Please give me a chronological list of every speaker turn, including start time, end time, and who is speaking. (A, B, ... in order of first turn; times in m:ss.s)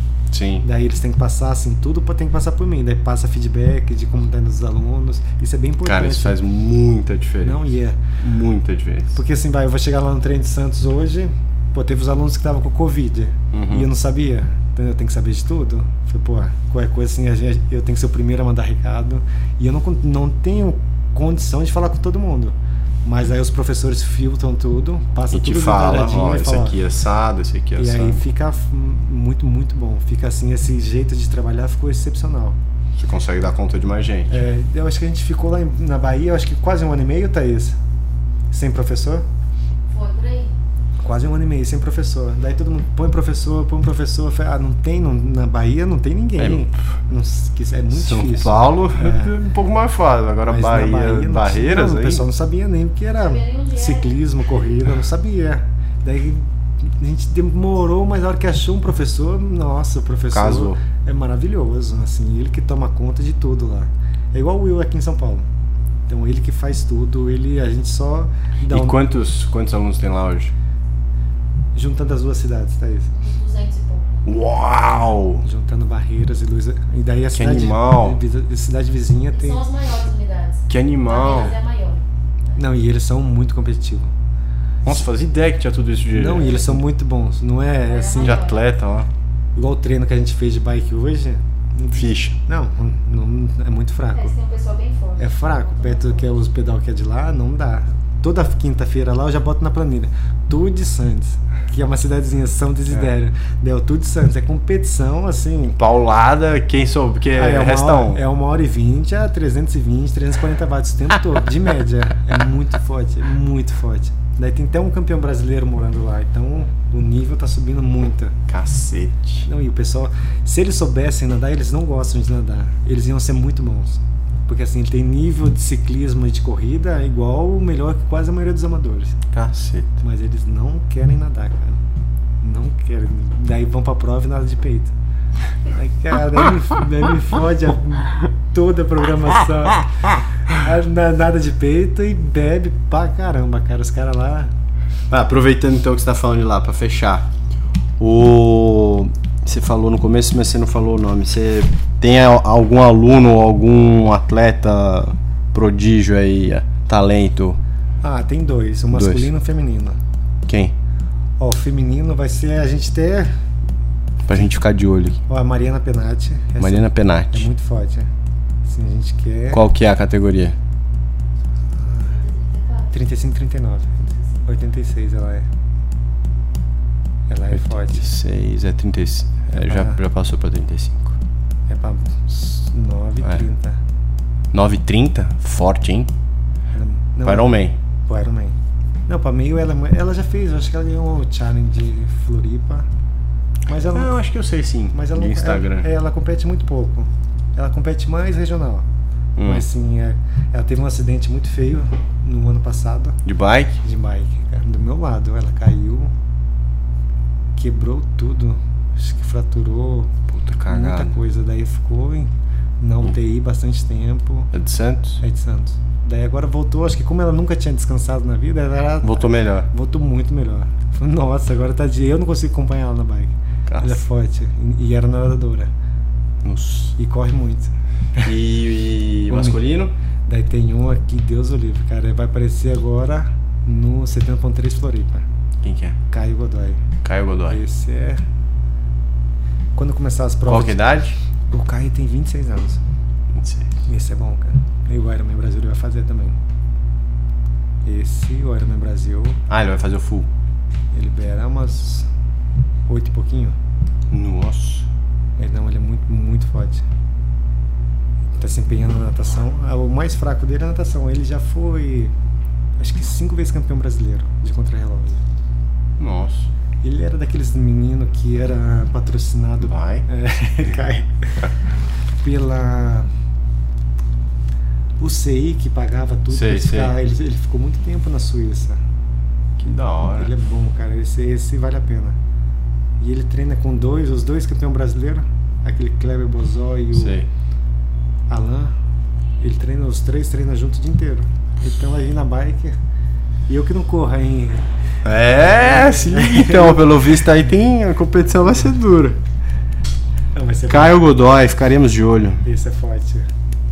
0:00.3-0:00.6 A
0:00.6-0:06.4 B
0:05.8-0:07.7 A
0:07.4-0:08.0 B
0:08.2-0:09.2 A
0:09.1-0:26.8 B
0:13.5-0:13.9 A
0:25.3-0:28.2 A
0:27.8-0:32.6 B
0:33.0-0:34.4 A
0:34.3-0:37.8 B
0:38.5-0:39.2 B
0:39.9-0:40.5 C
0:41.0-0:49.3 B
0:46.4-0:46.7 A
0:47.9-0:52.2 A
0:50.4-1:05.5 B
0:53.2-0:54.2 C
1:00.3-1:00.8 A
1:06.1-1:09.0 B
1:08.7-1:10.5 A
1:11.8-1:13.1 B
1:13.1-1:14.2 C
1:14.3-1:15.4 A
1:15.4-1:19.6 B
1:17.4-1:18.2 A
1:19.4-1:22.6 C
1:20.7-1:21.6 A
1:22.6-1:24.1 B
1:24.8-1:26.8 A
1:26.2-1:28.5 B
1:27.9-1:28.6 C
1:28.2-1:29.1 A
1:29.6-1:34.3 B
1:31.9-1:32.4 A
1:34.1-1:36.4 C
1:35.2-1:45.8 B
1:45.8-1:48.2 A
1:47.4-1:58.4 B
1:58.5-1:59.5 A
1:59.5-2:09.2 B
2:09.3-2:10.0 A
2:10.0-2:11.8 B
2:12.4-2:14.9 B
2:15.7-2:24.5 B
2:25.1-2:27.3 A
2:28.0-2:37.6 A
2:38.0-2:40.0 B
2:38.9-2:39.3 A
2:40.5-2:40.7 A
2:41.4-2:43.3 B
2:44.3-2:45.2 A
2:45.3-2:48.1 B
2:46.6-2:47.5 A
2:48.7-2:49.7 B
2:49.5-2:50.6 A
2:51.8-2:52.2 B
2:52.0-2:52.9 C
2:52.9-2:55.5 B
2:54.1-2:54.4 C
2:57.3-2:58.1 B
2:57.5-3:01.2 A
2:59.5-3:00.0 B
3:01.7-3:03.8 B
3:04.5-3:06.1 A
3:06.7-3:08.6 B
3:07.2-3:07.8 A
3:09.1-3:12.9 B
3:13.7-3:14.2 B
3:13.9-3:15.9 A
3:14.9-3:18.8 B
3:19.4-3:19.6 A
3:19.4-3:23.2 B
3:23.2-3:23.8 A
3:23.8-3:26.1 B
3:27.6-3:30.2 B
3:30.3-3:31.1 A
3:30.7-3:34.5 B
3:34.5-3:35.2 A
3:35.2-3:45.7 B
3:39.0-3:39.7 A
3:43.7-3:44.0 A
3:46.4-3:47.0 A
3:47.0-3:48.3 B
3:48.2-3:49.9 A
3:49.3-3:49.6 B
3:50.3-3:55.2 B
3:55.6-3:56.0 A
3:56.1-3:56.8 B
3:57.0-3:57.6 A
3:57.5-3:58.2 B
3:59.8-4:00.8 B
4:00.5-4:01.2 A
4:01.5-4:02.8 B
4:03.3-4:03.7 A
4:03.9-4:06.4 B
4:07.9-4:09.4 B
4:09.5-4:10.3 A
4:10.9-4:12.1 B
4:12.9-4:13.6 B
4:14.1-4:14.9 A
4:15.4-4:16.8 B
4:18.3-4:22.1 B
4:22.8-4:25.2 B
4:26.0-4:26.5 A
4:26.8-4:31.5 B
4:29.6-4:30.1 A
4:32.2-4:33.1 B
4:35.0-4:38.8 B
4:36.3-4:36.9 A
4:39.6-4:40.3 A
4:40.0-4:42.2 B
4:43.0-4:47.2 B
4:47.0-4:47.3 A
4:48.3-4:48.8 B
4:49.4-4:52.8 B
4:53.5-4:54.6 B
4:55.0-4:59.2 A
4:55.3-4:57.0 B
5:00.3-5:01.0 B
5:00.7-5:02.4 A
5:02.4-5:03.3 B